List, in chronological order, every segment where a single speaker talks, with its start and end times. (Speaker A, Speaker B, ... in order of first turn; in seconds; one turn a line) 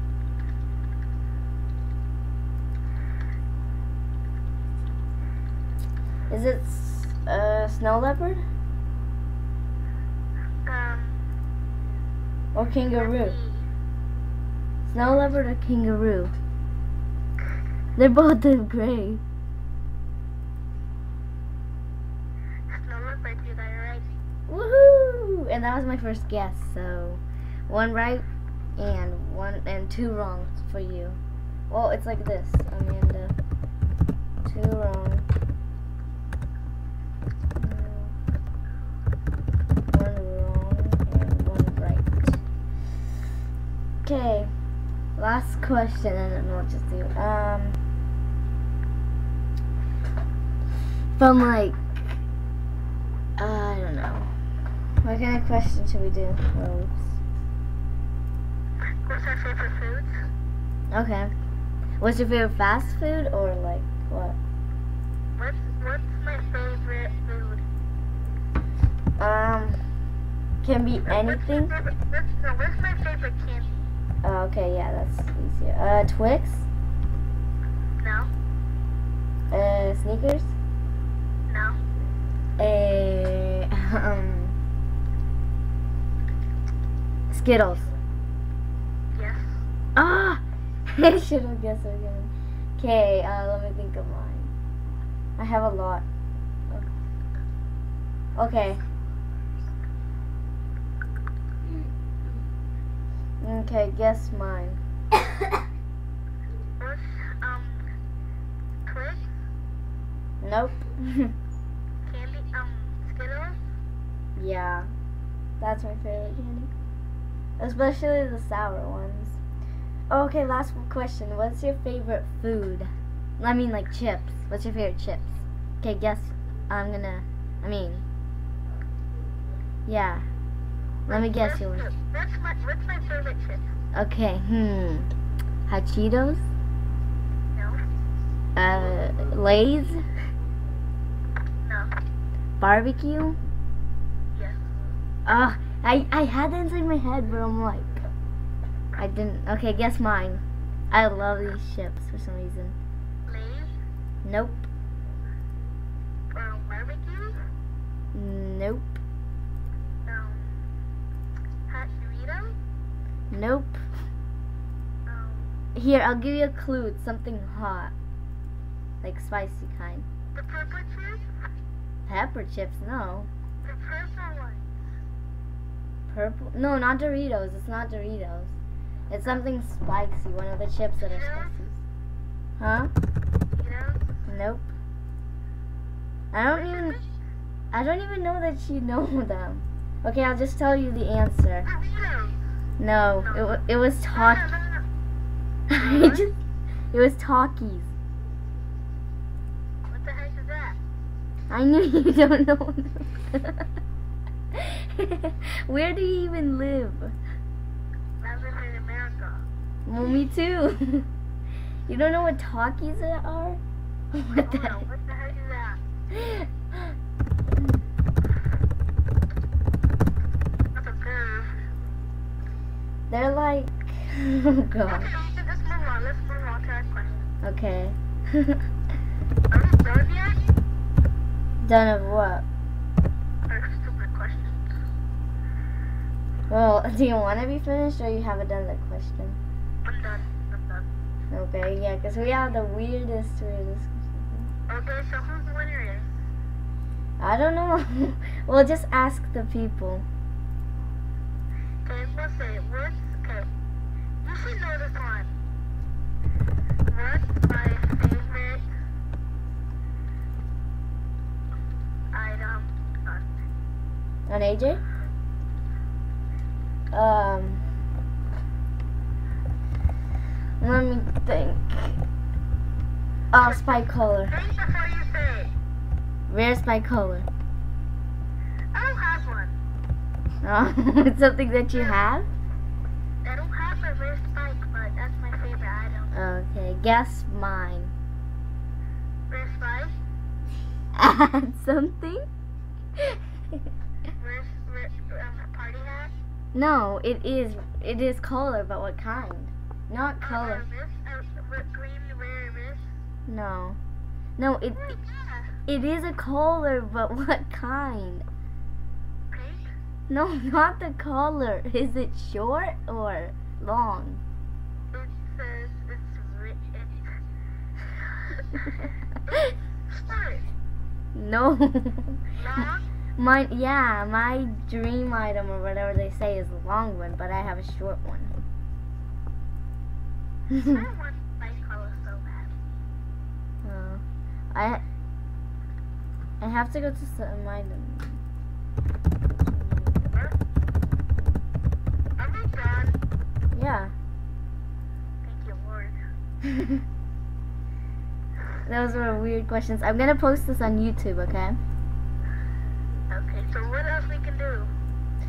Speaker A: 6.3-8.4
Speaker B: 10.6-11.2
Speaker A: 12.6-13.4
Speaker B: 12.9-13.7
Speaker A: 14.9-16.3
Speaker A: 18.0-19.2
Speaker B: 22.7-24.1
Speaker A: 24.5-28.2
Speaker A: 28.8-31.2
Speaker A: 31.7-33.3
Speaker A: 34.5-35.3
Speaker A: 37.6-38.2
Speaker A: 39.9-42.4
Speaker A: 44.0-44.5
Speaker A: 45.2-47.8
Speaker A: 51.2-51.8
Speaker A: 53.4-54.3
Speaker A: 55.0-57.2
Speaker B: 59.0-60.2
Speaker A: 60.9-61.3
Speaker A: 62.0-64.4
Speaker B: 65.4-67.7
Speaker A: 69.2-69.8
Speaker A: 70.6-71.8
Speaker B: 71.1-73.9
Speaker A: 74.2-76.7
Speaker B: 78.0-78.3
Speaker A: 79.5-80.5
Speaker B: 81.5-81.8
Speaker A: 82.6-84.6
Speaker A: 87.3-87.9
Speaker B: 89.2-89.6
Speaker A: 90.0-94.5
Speaker A: 95.4-96.0
Speaker A: 98.4-98.8
Speaker A: 103.4-104.8
Speaker B: 106.8-107.8
Speaker B: 108.8-109.4
Speaker A: 110.4-111.3
Speaker B: 112.0-113.6
Speaker A: 114.4-114.9
Speaker A: 115.6-116.7
Speaker A: 117.6-119.4
Speaker A: 120.1-128.0
Speaker A: 129.9-130.3
Speaker A: 131.1-131.9
Speaker B: 131.1-133.8
Speaker A: 133.9-135.1
Speaker A: 135.7-136.5
Speaker B: 137.5-137.8
Speaker A: 138.6-140.1
Speaker B: 141.7-141.9
Speaker A: 142.6-143.4
Speaker B: 144.3-144.8
Speaker A: 145.3-148.1
Speaker A: 149.0-152.8
Speaker B: 153.3-153.8
Speaker A: 154.2-154.7
Speaker B: 156.3-157.4
Speaker A: 158.1-159.0
Speaker B: 160.1-160.6
Speaker B: 161.7-162.6
Speaker A: 163.3-163.8
Speaker B: 165.1-165.6
Speaker A: 165.8-167.9
Speaker A: 169.0-170.1
Speaker B: 170.3-171.3
Speaker A: 172.1-173.3
Speaker B: 173.6-174.9
Speaker A: 176.1-178.6
Speaker A: 179.1-181.8
Speaker B: 181.0-181.6
Speaker A: 182.6-182.9
Speaker B: 183.5-184.2
Speaker A: 184.3-184.7
Speaker A: 186.3-187.0
Speaker B: 186.7-187.1
Speaker A: 187.7-191.7
Speaker B: 191.6-192.4
Speaker A: 192.8-194.5
Speaker B: 193.2-193.5
Speaker B: 194.1-194.9
Speaker A: 195.7-196.3
Speaker B: 195.8-196.2
Speaker A: 196.9-197.9
Speaker B: 199.9-200.8
Speaker A: 201.5-203.7
Speaker A: 204.6-207.2
Speaker B: 208.2-209.4
Speaker A: 209.9-211.1
Speaker A: 211.9-213.6
Speaker A: 214.1-214.8
Speaker B: 214.4-215.8
Speaker A: 216.1-216.8
Speaker B: 220.8-221.7
Speaker A: 223.1-225.1
Speaker B: 224.9-227.3
Speaker A: 227.4-228.6
Speaker B: 229.5-230.5
Speaker A: 231.6-232.5
Speaker B: 233.5-234.7
Speaker A: 236.5-239.4
Speaker B: 239.8-240.9
Speaker A: 241.3-244.5
Speaker B: 244.7-246.2
Speaker A: 247.2-250.1
Speaker B: 251.8-253.5
Speaker B: 254.2-255.3
Speaker B: 256.9-258.7
Speaker B: 262.1-263.2
Speaker A: 264.3-264.8
Speaker A: 266.9-267.6
Speaker A: 270.6-272.0
Speaker A: 273.3-274.4
Speaker B: 273.4-275.5
Speaker A: 276.3-277.3
Speaker B: 278.7-279.6
Speaker A: 280.4-282.3
Speaker B: 283.2-286.1
Speaker A: 286.1-287.9
Speaker B: 289.3-290.0
Speaker A: 291.0-292.3
Speaker B: 294.2-296.2
Speaker A: 296.5-300.7
Speaker B: 300.2-302.9
Speaker A: 303.3-303.8
Speaker A: 304.4-305.0
Speaker B: 304.8-305.5
Speaker A: 305.7-308.2
Speaker B: 309.3-309.7
Speaker A: 310.1-314.2
Speaker B: 314.9-317.2
Speaker B: 318.4-318.6
Speaker B: 319.9-320.5
Speaker A: 321.1-328.4
Speaker B: 322.4-322.9
Speaker A: 330.5-330.8
Speaker B: 330.6-332.6
Speaker A: 333.6-334.8
Speaker A: 336.4-338.2
Speaker A: 339.3-340.1
Speaker A: 341.0-341.4
Speaker B: 342.2-343.0
Speaker A: 343.5-343.9
Speaker B: 345.2-346.0
Speaker A: 346.4-346.8
Speaker A: 348.7-351.6
Speaker B: 353.1-354.7